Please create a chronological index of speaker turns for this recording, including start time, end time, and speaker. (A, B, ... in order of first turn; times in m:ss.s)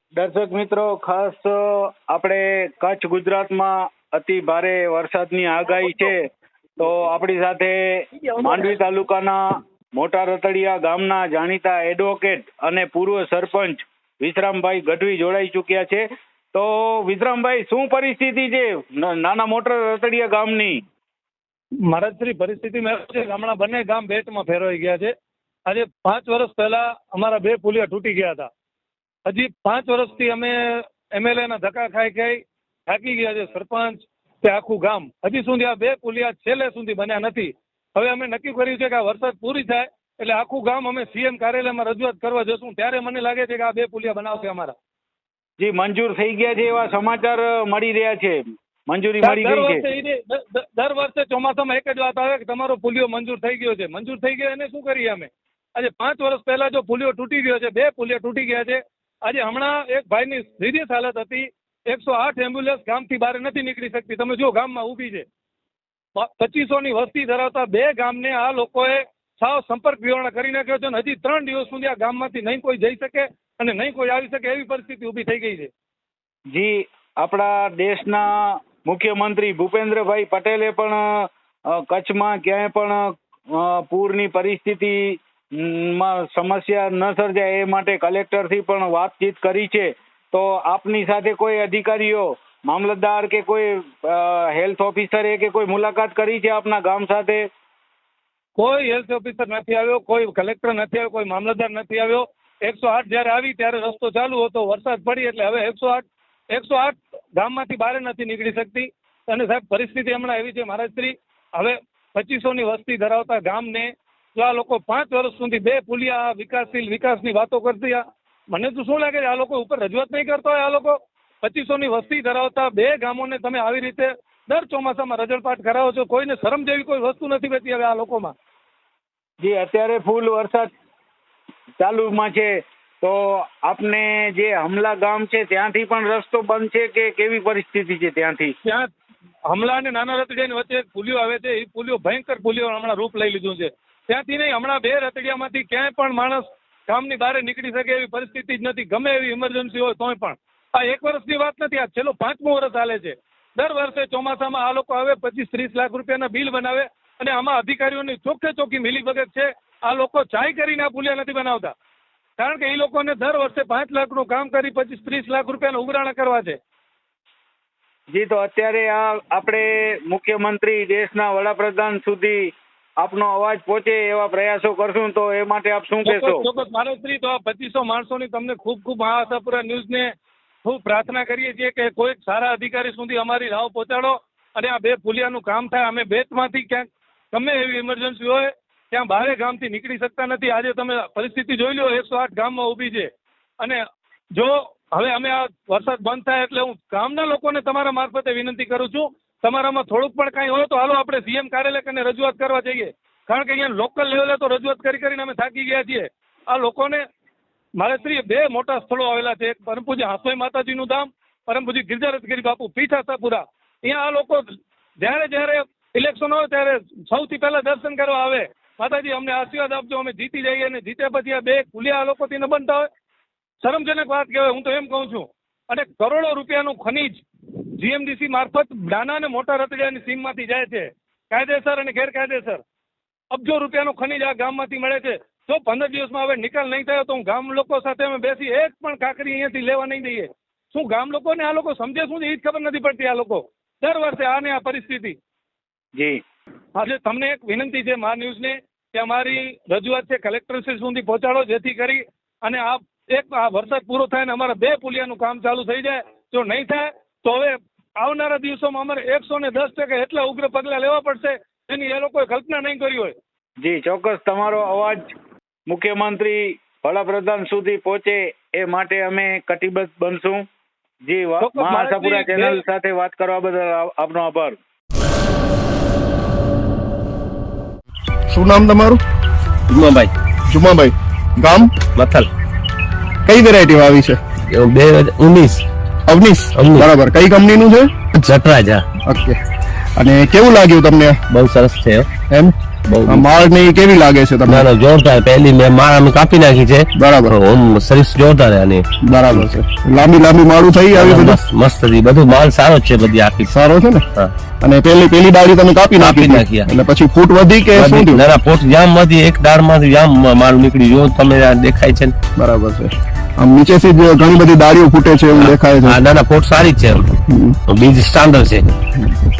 0:00.1-0:06.2 A
0:06.8-0:20.8 A
0:21.9-0:25.1 B
0:25.7-0:28.5 B
0:29.2-0:44.7 B
0:45.6-0:49.8 A
0:49.2-1:05.2 B
1:06.2-1:15.7 B
1:16.5-1:37.4 A
1:38.6-2:08.3 B
2:09.4-2:10.7 A
2:11.8-2:18.5 A
2:19.5-2:41.7 B
2:42.4-2:46.6 B
2:48.1-2:56.4 A
2:56.0-3:00.1 B
3:00.6-3:13.1 B
3:14.4-3:27.0 B
3:27.8-3:34.5 B
3:35.0-3:42.8 B
3:43.6-3:47.2 B
3:47.8-3:52.6 B
3:53.3-4:05.2 B
4:06.8-4:23.1 B
4:23.6-4:25.0 A
4:25.7-4:30.4 A
4:31.0-4:34.6 A
4:31.4-4:32.6 B
4:38.3-4:39.0 C
4:39.7-4:40.1 D
4:40.5-4:41.7 C
4:42.0-4:42.3 D
4:43.2-4:44.2 C
4:44.5-4:45.6 D
4:46.1-4:48.0 C
4:46.5-4:46.9 D
4:48.1-4:48.8 D
4:49.0-4:49.4 C
4:50.0-4:51.2 C
4:51.3-4:52.1 D
4:52.3-4:52.5 C
4:52.9-4:53.3 D
4:53.1-4:54.7 C
4:54.5-4:59.5 D
4:56.9-4:57.4 C
4:59.0-5:01.4 C
5:00.9-5:03.5 D
5:03.5-5:04.0 C
5:04.6-5:08.2 C
5:06.0-5:06.7 D
5:07.7-5:12.1 D
5:12.3-5:16.0 C
5:15.3-5:17.1 D
5:17.3-5:17.6 C
5:17.7-5:18.7 D